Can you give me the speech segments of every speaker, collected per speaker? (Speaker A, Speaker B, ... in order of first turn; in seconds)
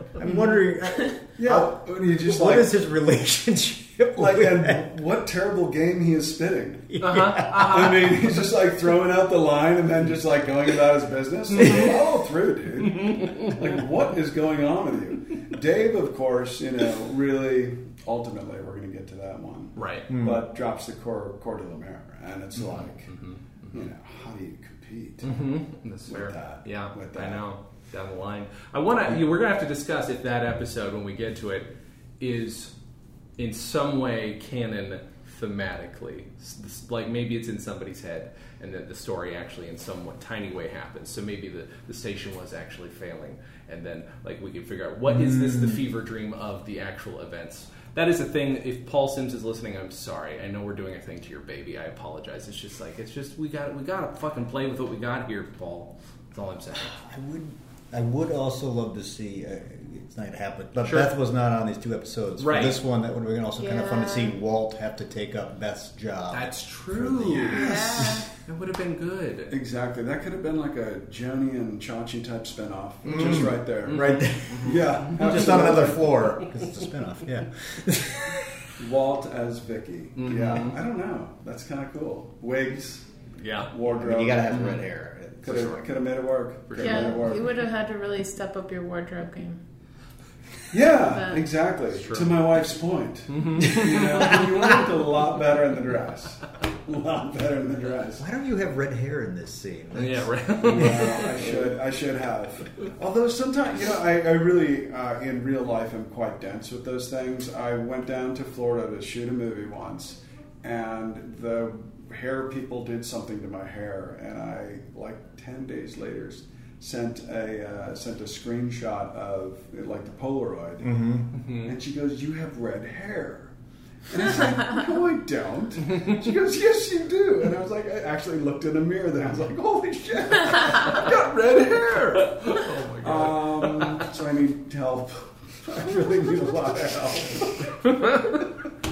Speaker A: 0.1-4.8, 7.0-7.8, 20.1-20.4, 56.9-68.2, 73.1-78.5, 83.8-85.8, 98.2-101.7, 120.8-121.2
Speaker B: 1.4-2.8, 4.2-23.1, 23.7-25.4, 26.1-27.4, 67.2-68.2, 69.5-76.3, 78.8-83.1, 83.7-84.7, 85.4-87.6, 90.7-98.2, 100.6-123.5, 124.1-138.5
Speaker C: 7.0-8.3, 12.9-13.5, 19.8-20.1, 22.6-23.8, 25.2-32.7, 33.4-57.0, 60.8-61.1, 62.4-62.8, 66.3-69.6, 73.0-75.0, 80.2-80.7, 83.4-83.7, 84.5-84.8, 85.4-85.8, 86.7-87.2, 91.9-92.4, 93.3-94.3, 99.9-101.3, 121.3-121.7, 132.4-134.1
Speaker D: 63.6-64.3, 67.5-68.3, 86.8-89.6, 90.9-91.4